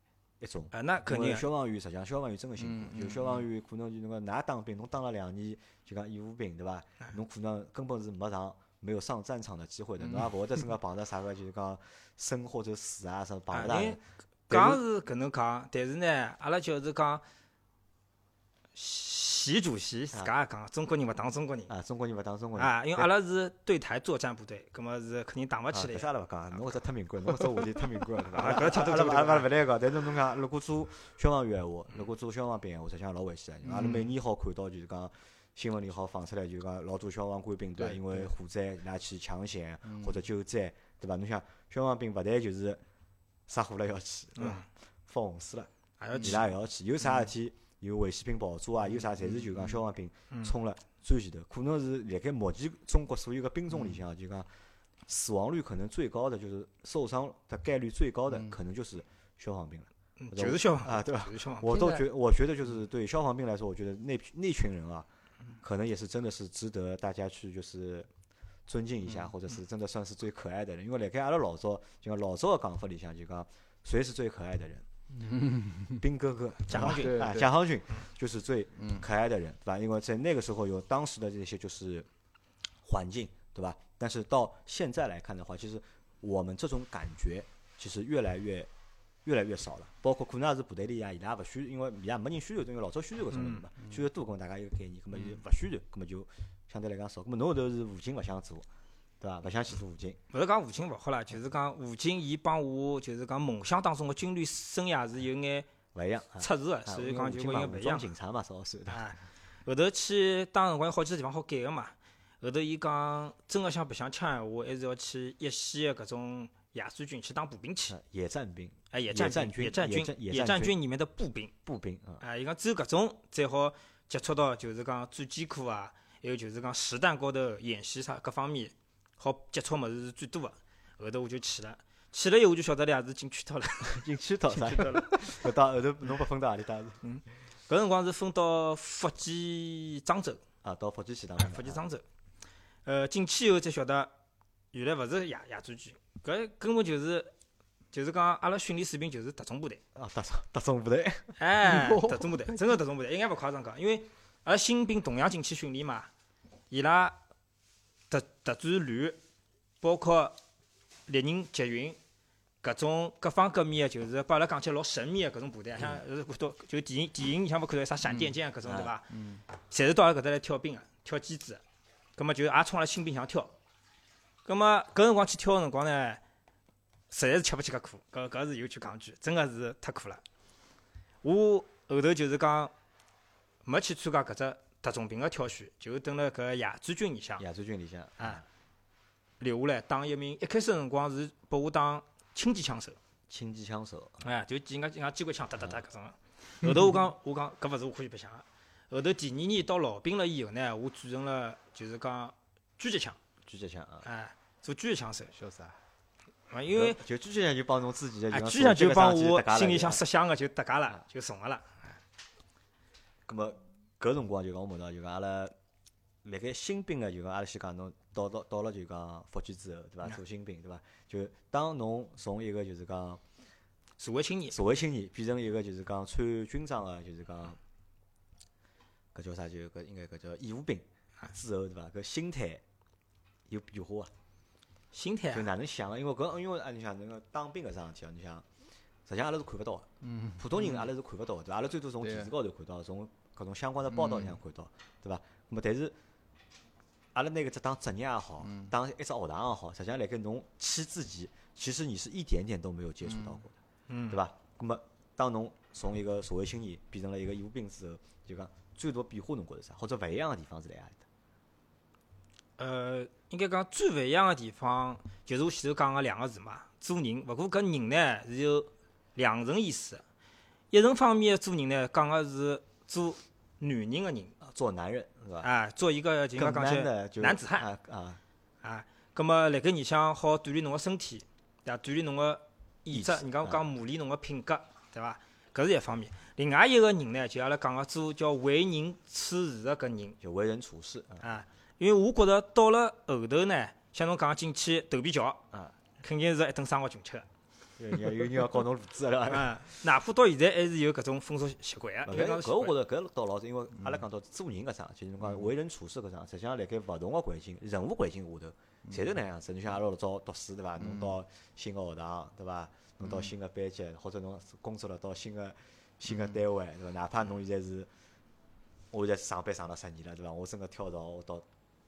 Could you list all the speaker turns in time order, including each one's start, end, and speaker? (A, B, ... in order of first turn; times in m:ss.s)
0:00.4-0:14.8 A
0:00.7-0:01.4 B
0:02.6-0:03.4 C
0:13.5-0:17.2 B
0:18.7-0:21.7 B
0:21.7-0:23.1 A
0:22.6-0:26.1 B
0:25.7-0:42.8 A
0:28.3-0:29.5 B
0:33.6-0:34.1 C
0:37.8-0:38.3 C
0:43.5-0:54.5 A
0:44.4-0:44.6 B
0:46.0-0:46.4 B
0:55.1-1:05.1 A
1:00.2-1:01.9 B
1:05.6-1:08.1 A
1:08.7-1:14.9 A
1:15.1-1:16.0 C
1:16.0-1:22.1 A
1:16.7-1:17.2 B
1:16.8-1:17.5 C
1:22.8-1:28.7 A
1:29.2-1:38.6 A
1:33.3-1:33.6 B
1:39.2-1:40.2 A
1:40.3-1:45.7 B
1:45.9-1:49.0 A
1:46.4-1:48.1 B
1:48.9-1:57.9 B
1:57.9-2:00.8 A
1:58.9-2:01.5 B
2:01.6-2:02.2 A
2:02.2-2:15.5 B
2:13.8-2:17.0 A
2:17.0-2:20.4 B
2:20.6-2:21.8 A
2:21.4-2:22.0 B
2:22.8-2:24.1 B
2:24.7-2:27.3 B
2:27.9-2:29.8 B
2:29.9-2:31.3 A
2:31.4-2:36.1 B
2:31.7-2:32.3 C
2:36.7-2:37.2 B
2:38.1-2:39.2 B
2:39.8-2:40.4 B
2:41.1-2:42.0 B
2:42.6-2:51.6 B
2:48.6-2:48.9 A
2:52.2-2:53.5 B
2:54.4-2:56.2 B
2:57.1-3:00.2 B
3:01.2-3:02.7 B
3:03.6-3:07.4 B
3:07.4-3:08.4 A
3:09.4-3:13.0 B
3:13.3-3:14.2 A
3:14.2-3:23.2 B
3:23.4-3:24.1 A
3:24.0-3:25.3 B
3:25.3-3:25.8 C
3:26.5-3:27.0 B
3:26.7-3:30.0 A
3:28.3-3:31.9 B
3:33.2-3:35.5 A
3:36.2-3:43.2 A
3:44.0-3:44.6 B
3:44.5-3:47.6 A
3:49.1-3:52.6 A
3:53.5-3:54.1 A
3:54.9-3:55.5 B
3:55.3-3:58.4 A
3:59.0-4:06.0 A
4:00.0-4:00.6 C
4:02.0-4:02.3 C
4:07.1-4:13.5 A
4:13.9-4:14.2 B
4:14.1-4:21.0 A
4:22.6-4:30.0 B
4:30.7-4:34.3 B
4:34.4-4:35.5 A
4:35.4-4:37.7 B
4:36.4-4:38.2 A
4:38.6-4:50.2 B
4:42.9-4:43.6 A
4:50.2-4:51.2 A
4:51.2-4:55.4 B
4:56.0-4:57.2 B
4:57.8-4:59.8 A
4:59.3-5:02.7 B
5:02.0-5:17.9 A
5:18.9-5:21.4 A